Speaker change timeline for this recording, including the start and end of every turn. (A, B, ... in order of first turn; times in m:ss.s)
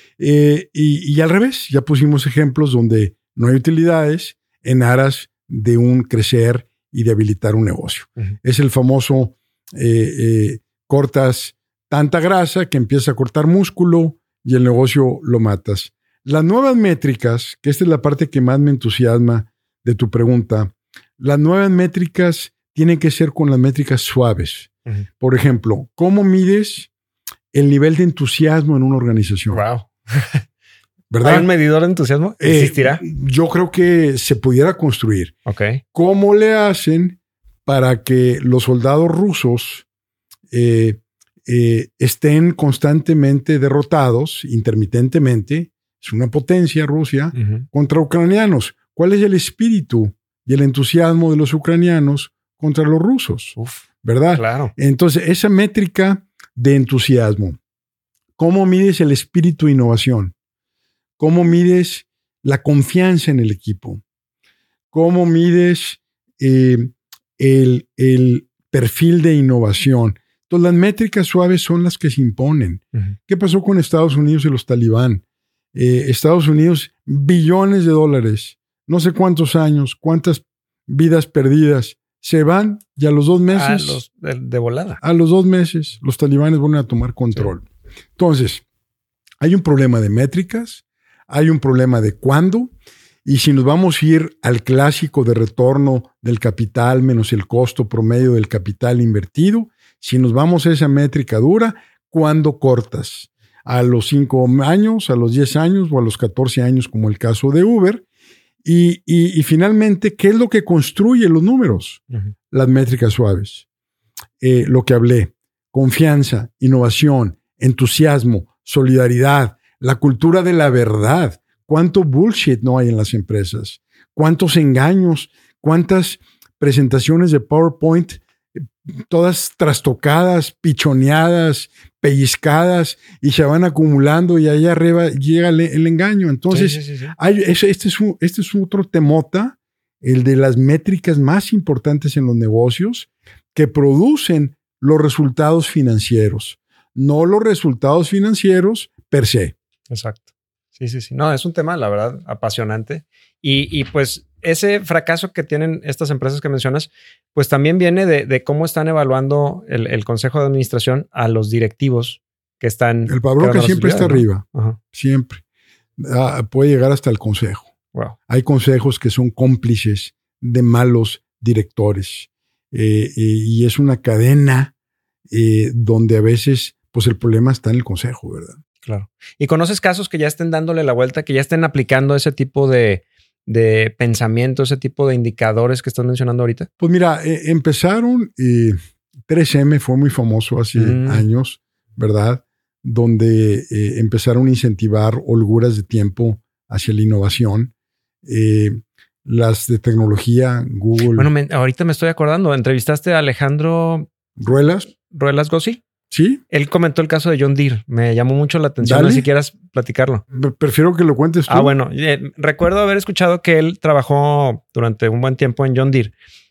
0:00.2-0:26.9 A
0:27.5-0:29.6 A
0:29.5-0:30.4 B
0:31.1-0:31.5 A
0:31.2-0:33.0 B
0:32.4-0:35.3 A
0:35.4-0:35.8 B
0:35.9-0:39.8 A
0:40.5-0:57.6 A
0:47.3-0:47.6 B
0:53.6-0:53.8 B
0:54.3-0:54.7 B
0:58.4-1:00.3 A
1:01.2-1:04.0 A
1:04.9-1:15.2 A
1:15.7-1:24.0 A
1:23.5-1:25.0 B
1:25.0-1:27.6 A
1:28.2-1:28.6 A
1:29.4-1:32.7 A
1:33.2-1:48.0 A
1:48.6-1:53.6 A
1:54.4-2:08.2 A
2:08.9-2:29.5 A
2:16.5-2:17.1 B
2:29.9-2:30.2 B
2:30.8-2:44.8 B
2:43.1-2:45.4 A
2:46.0-2:47.7 A
2:48.3-2:54.7 A
2:55.3-2:58.6 A
2:58.8-3:06.7 B
3:06.8-3:08.8 A
3:09.3-3:17.7 A
3:10.7-3:11.2 B
3:18.2-3:21.3 A
3:21.1-3:24.1 B
3:24.4-3:24.9 A
3:24.9-3:25.8 B
3:26.1-3:26.4 A
3:26.5-3:30.2 B
3:28.8-3:29.2 A
3:30.3-3:31.7 A
3:31.5-3:36.1 B